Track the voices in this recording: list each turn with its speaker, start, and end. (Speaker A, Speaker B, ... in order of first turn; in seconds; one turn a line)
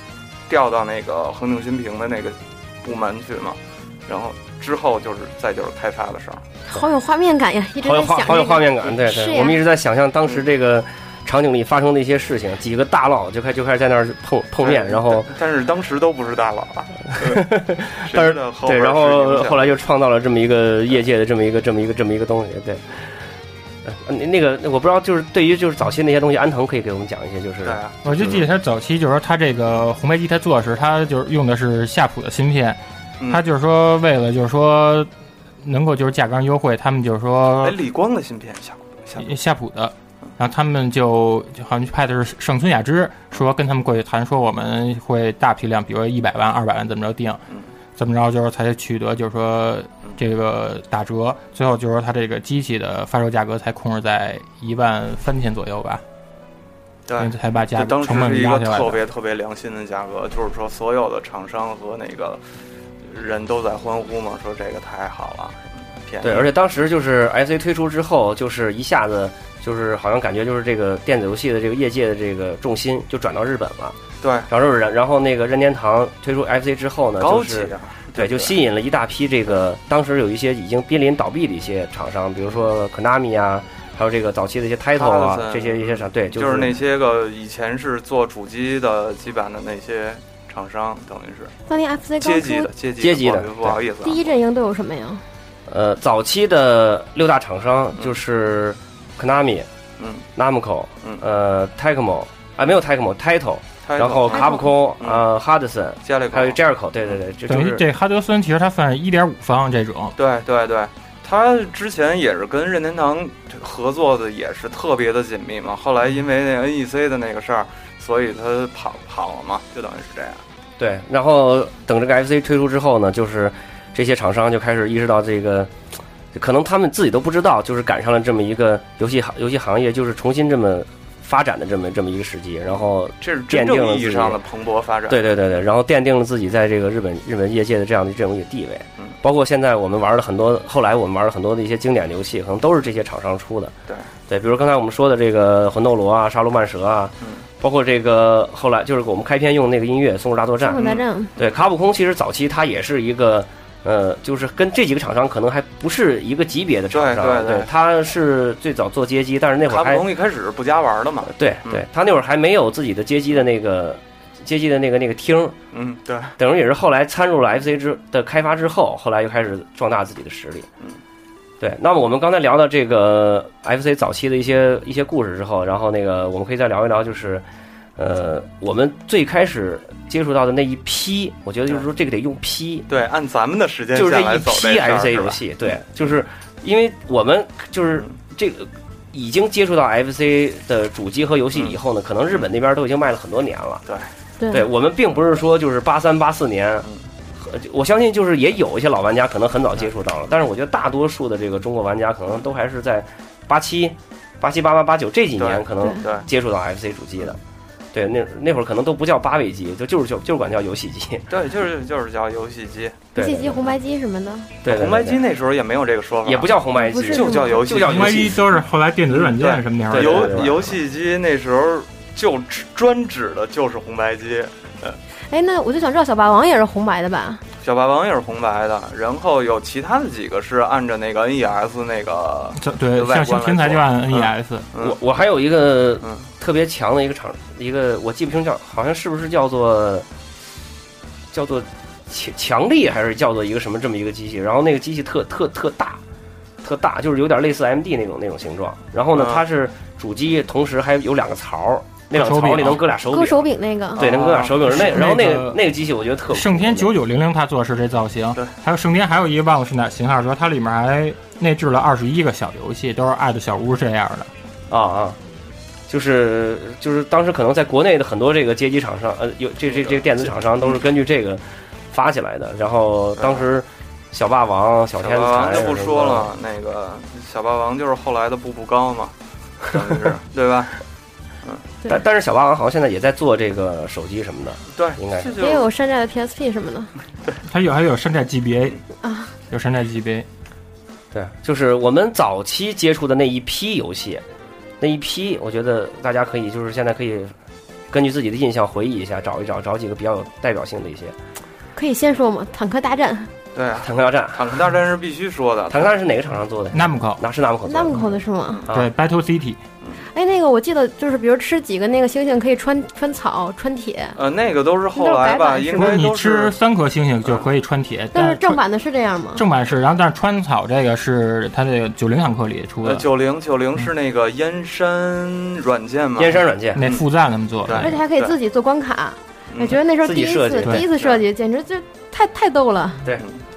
Speaker A: 0.5-6.4
Speaker B: 6.7-9.6
Speaker C: 7.8-15.3
Speaker A: 14.6-17.4
Speaker C: 17.1-23.0
Speaker A: 18.1-19.8
Speaker C: 23.9-28.4
Speaker A: 27.6-28.3
Speaker D: 28.0-35.1
Speaker D: 35.6-37.8
Speaker A: 37.6-39.3
Speaker D: 39.2-47.4
Speaker D: 48.0-56.0
Speaker A: 57.1-62.4
Speaker D: 57.2-59.0
Speaker A: 63.1-66.5
Speaker C: 66.2-74.0
Speaker A: 74.2-74.5
Speaker C: 74.5-86.8
Speaker A: 77.2-78.6
Speaker A: 84.9-91.5
Speaker B: 91.7-92.7
Speaker A: 92.2-94.3
Speaker C: 93.0-93.8
Speaker B: 94.0-95.2
Speaker C: 95.7-99.7
Speaker A: 100.0-100.3
Speaker C: 100.4-107.8
Speaker A: 103.8-104.5
Speaker B: 104.3-104.7
Speaker A: 106.0-107.2
Speaker D: 107.5-110.2
Speaker A: 110.2-120.4
Speaker C: 120.8-125.7
Speaker C: 126.3-134.4
Speaker A: 133.2-135.2
Speaker C: 135.1-143.7
Speaker C: 144.3-160.1
Speaker B: 150.7-151.3
Speaker A: 150.7-151.5
Speaker A: 156.9-157.7
Speaker A: 159.7-161.8
Speaker C: 161.3-165.6
Speaker A: 165.7-166.3
Speaker C: 166.4-170.7
Speaker C: 171.6-177.4
Speaker C: 178.0-182.9
Speaker A: 182.9-185.8
Speaker C: 183.9-193.8
Speaker B: 194.4-194.7
Speaker C: 194.5-196.9
Speaker C: 197.4-207.4
Speaker A: 205.4-206.3
Speaker C: 207.9-211.3
Speaker A: 211.3-213.1
Speaker C: 213.1-213.7
Speaker B: 213.2-214.5
Speaker C: 214.6-215.2
Speaker A: 214.7-218.4
Speaker C: 216.2-218.4
Speaker B: 216.8-217.6
Speaker D: 217.8-220.7
Speaker A: 219.1-225.0
Speaker C: 219.9-220.6
Speaker B: 225.3-227.4
Speaker A: 227.6-235.0
Speaker D: 232.6-234.7
Speaker C: 234.8-240.1
Speaker C: 241.3-246.0
Speaker C: 246.6-256.9
Speaker A: 249.1-249.4
Speaker D: 252.1-252.9
Speaker B: 253.1-254.1
Speaker A: 254.0-255.1
Speaker D: 254.3-255.6
Speaker D: 256.3-264.3
Speaker C: 264.7-265.2
Speaker C: 265.9-276.3
Speaker A: 269.7-270.8
Speaker A: 273.2-273.4
Speaker A: 275.0-280.8
Speaker C: 281.9-285.4
Speaker A: 284.7-285.7
Speaker B: 285.4-286.9
Speaker D: 287.4-288.8
Speaker B: 289.0-289.3
Speaker D: 289.5-290.3
Speaker C: 291.1-294.2
Speaker C: 294.8-297.3
Speaker C: 297.9-301.1
Speaker B: 301.8-303.3
Speaker A: 303.6-306.0
Speaker C: 303.8-304.4
Speaker C: 305.7-308.0
Speaker D: 306.7-307.2
Speaker B: 307.7-308.6
Speaker D: 308.7-309.6
Speaker B: 310.1-314.2
Speaker A: 314.1-316.6
Speaker B: 315.0-316.0
Speaker D: 315.8-318.6
Speaker B: 318.1-319.4
Speaker D: 319.4-323.1
Speaker A: 322.8-327.1
Speaker C: 326.2-326.8
Speaker D: 326.8-328.0
Speaker A: 327.6-328.4
Speaker B: 327.8-333.0
Speaker A: 329.5-329.8
Speaker C: 329.7-330.9
Speaker A: 330.9-331.2